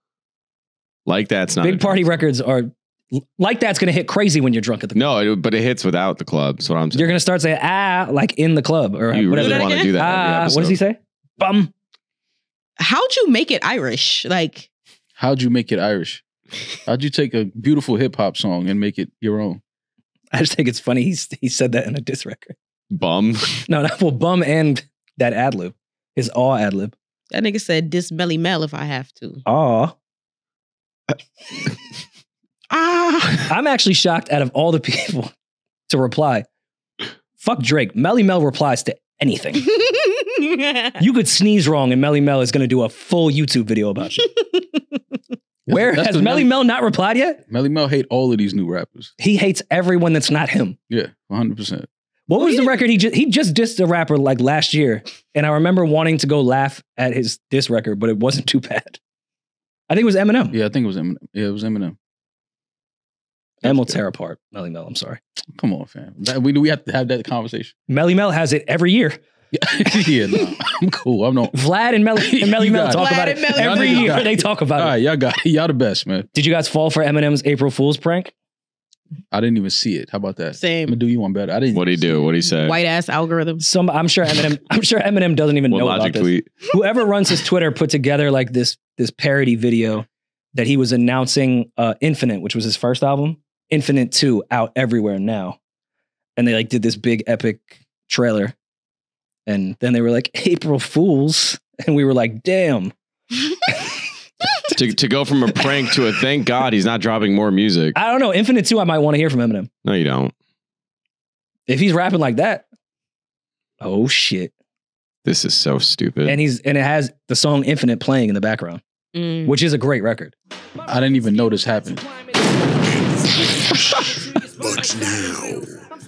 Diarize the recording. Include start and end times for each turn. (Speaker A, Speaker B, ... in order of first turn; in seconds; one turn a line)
Speaker A: 1.1-2.0
Speaker B: 1.6-5.0
Speaker A: 4.9-7.2
Speaker B: 6.9-11.7
Speaker A: 9.1-10.8
Speaker C: 9.3-9.9
Speaker C: 12.8-14.7
Speaker D: 15.2-16.2
Speaker D: 16.9-19.6
Speaker B: 20.3-22.6
Speaker A: 22.9-23.7
Speaker B: 23.7-26.9
Speaker C: 27.3-29.4
Speaker B: 29.4-29.9
Speaker C: 32.7-33.5
Speaker B: 33.5-35.3
Speaker B: 35.9-36.5
Speaker B: 37.4-39.7
Speaker C: 39.7-41.0
Speaker B: 41.0-44.3
Speaker D: 45.7-46.5
Speaker B: 45.7-47.4
Speaker D: 47.5-49.1
Speaker B: 49.2-50.8
Speaker D: 50.9-51.9
Speaker B: 52.3-59.0
Speaker C: 52.4-52.7
Speaker B: 59.9-60.6
Speaker D: 60.5-62.0
Speaker B: 63.6-65.2
Speaker D: 65.5-67.7
Speaker B: 67.9-69.2
Speaker D: 69.5-71.5
Speaker B: 71.5-75.0
Speaker D: 72.2-76.3
Speaker C: 72.9-74.3
Speaker B: 76.3-78.3
Speaker D: 79.3-82.3
Speaker C: 80.6-81.0
Speaker A: 81.7-82.8
Speaker C: 82.4-83.6
Speaker B: 83.6-95.6
Speaker A: 85.7-86.5
Speaker B: 96.4-98.5
Speaker B: 99.5-102.9
Speaker A: 104.7-108.0
Speaker B: 108.0-109.7
Speaker A: 109.8-110.3
Speaker B: 111.7-112.7
Speaker B: 113.8-114.5
Speaker A: 115.2-116.4
Speaker B: 116.3-118.8
Speaker C: 119.2-119.5
Speaker B: 119.5-120.3
Speaker D: 120.9-122.1